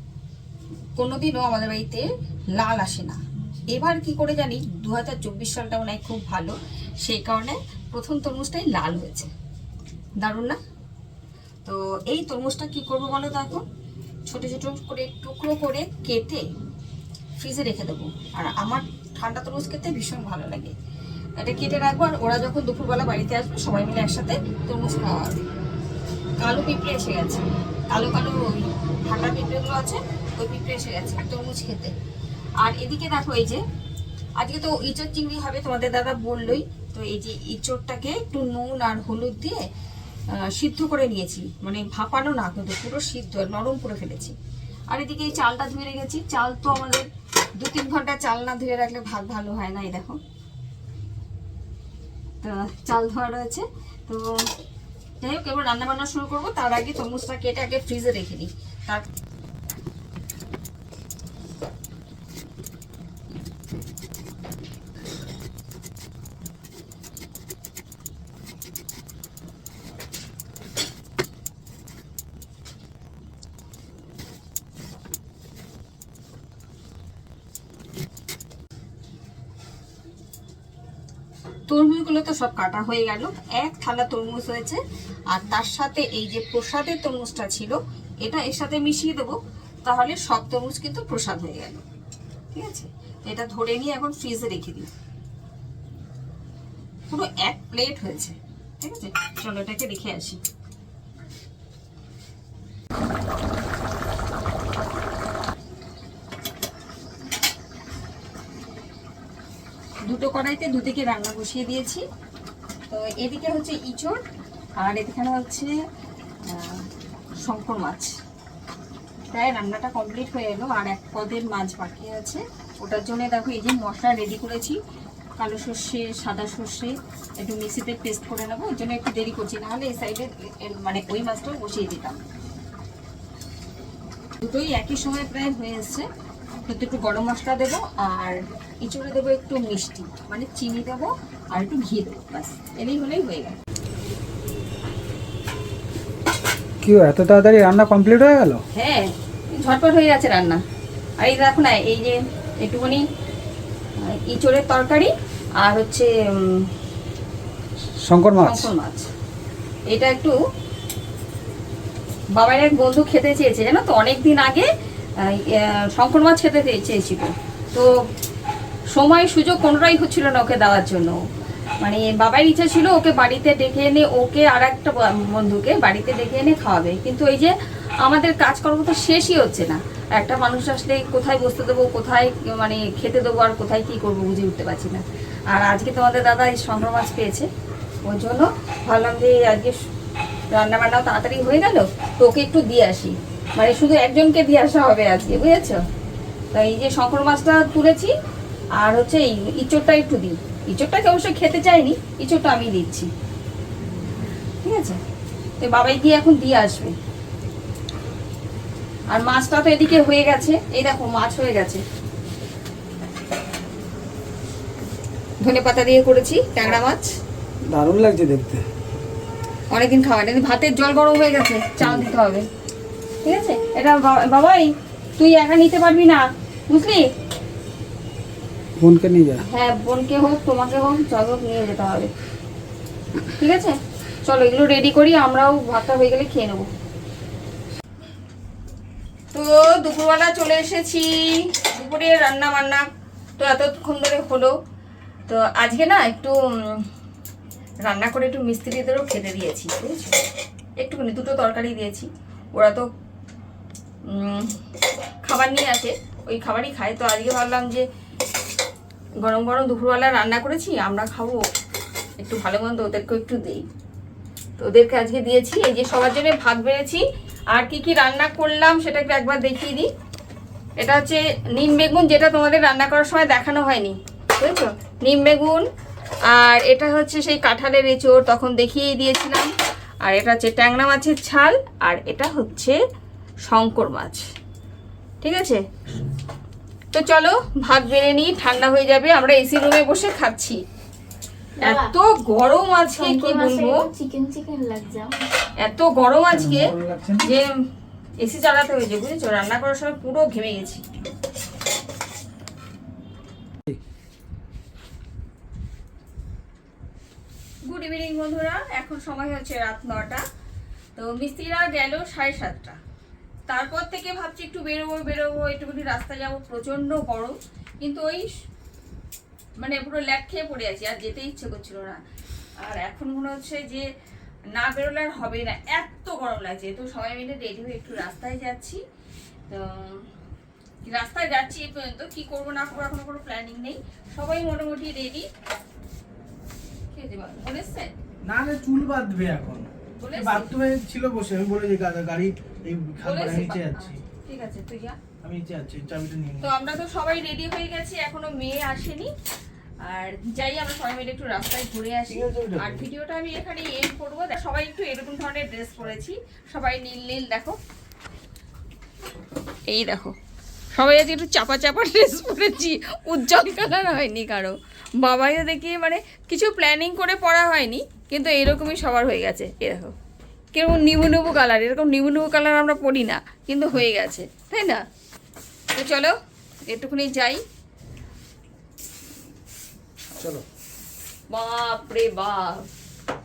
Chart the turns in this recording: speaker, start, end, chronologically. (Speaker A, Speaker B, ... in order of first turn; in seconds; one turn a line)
Speaker A: 1.0-9.3
Speaker A: 10.2-10.6
Speaker A: 11.6-13.6
Speaker A: 14.3-16.5
Speaker A: 17.4-20.7
Speaker A: 21.4-25.4
Speaker A: 26.4-31.9
Speaker A: 32.6-33.6
Speaker A: 34.4-39.7
Speaker A: 40.3-44.3
Speaker A: 44.9-47.1
Speaker A: 47.6-50.2
Speaker A: 52.4-54.5
Speaker A: 55.2-59.0
Speaker A: 81.7-91.8
Speaker A: 92.5-94.9
Speaker A: 97.1-100.4
Speaker A: 110.1-112.0
Speaker A: 112.9-114.2
Speaker A: 114.8-115.7
Speaker A: 116.4-116.9
Speaker A: 117.4-118.2
Speaker A: 119.3-124.8
Speaker A: 125.4-132.2
Speaker A: 134.4-136.1
Speaker A: 136.7-143.6
Speaker B: 146.8-148.6
Speaker A: 148.7-150.6
Speaker A: 151.2-153.0
Speaker A: 154.0-156.7
Speaker B: 158.0-158.7
Speaker A: 158.4-159.1
Speaker A: 159.9-160.3
Speaker A: 162.3-164.7
Speaker A: 165.2-167.9
Speaker A: 168.9-171.1
Speaker A: 171.8-187.5
Speaker A: 188.1-189.8
Speaker A: 190.5-195.8
Speaker A: 196.5-198.1
Speaker A: 198.8-203.1
Speaker A: 204.6-205.0
Speaker A: 205.6-206.9
Speaker A: 209.1-211.8
Speaker A: 215.4-217.1
Speaker B: 217.7-218.6
Speaker A: 219.7-222.4
Speaker B: 221.8-222.1
Speaker A: 223.2-227.1
Speaker B: 228.8-229.4
Speaker A: 229.4-232.1
Speaker A: 233.4-236.7
Speaker A: 239.3-242.8
Speaker A: 243.4-244.5
Speaker A: 245.3-246.9
Speaker A: 247.9-250.2
Speaker A: 250.8-252.9
Speaker A: 254.1-254.5
Speaker A: 255.2-257.8
Speaker A: 259.2-261.4
Speaker A: 262.2-263.6
Speaker A: 264.6-269.9
Speaker A: 270.8-275.6
Speaker A: 276.3-279.5
Speaker A: 280.0-282.8
Speaker A: 283.4-284.2
Speaker A: 285.2-285.6
Speaker A: 286.9-290.6
Speaker C: 291.6-291.9
Speaker A: 291.6-293.9
Speaker C: 292.9-295.1
Speaker A: 295.6-297.5
Speaker B: 296.3-297.3
Speaker A: 298.2-300.9
Speaker A: 307.7-310.2
Speaker A: 310.9-312.8
Speaker A: 313.5-318.3
Speaker A: 319.6-322.0
Speaker A: 322.6-323.9
Speaker A: 324.5-328.8
Speaker A: 329.5-330.1
Speaker A: 330.8-335.3
Speaker A: 336.9-337.9
Speaker D: 338.3-343.9
Speaker A: 340.0-340.5
Speaker A: 343.0-345.0
Speaker D: 345.2-346.5
Speaker A: 346.4-349.1
Speaker A: 349.8-357.6
Speaker D: 352.1-352.9
Speaker A: 359.7-360.1
Speaker A: 360.7-369.9
Speaker A: 370.5-374.8
Speaker A: 375.7-376.1
Speaker A: 376.7-377.4
Speaker B: 380.2-380.4
Speaker A: 381.3-382.6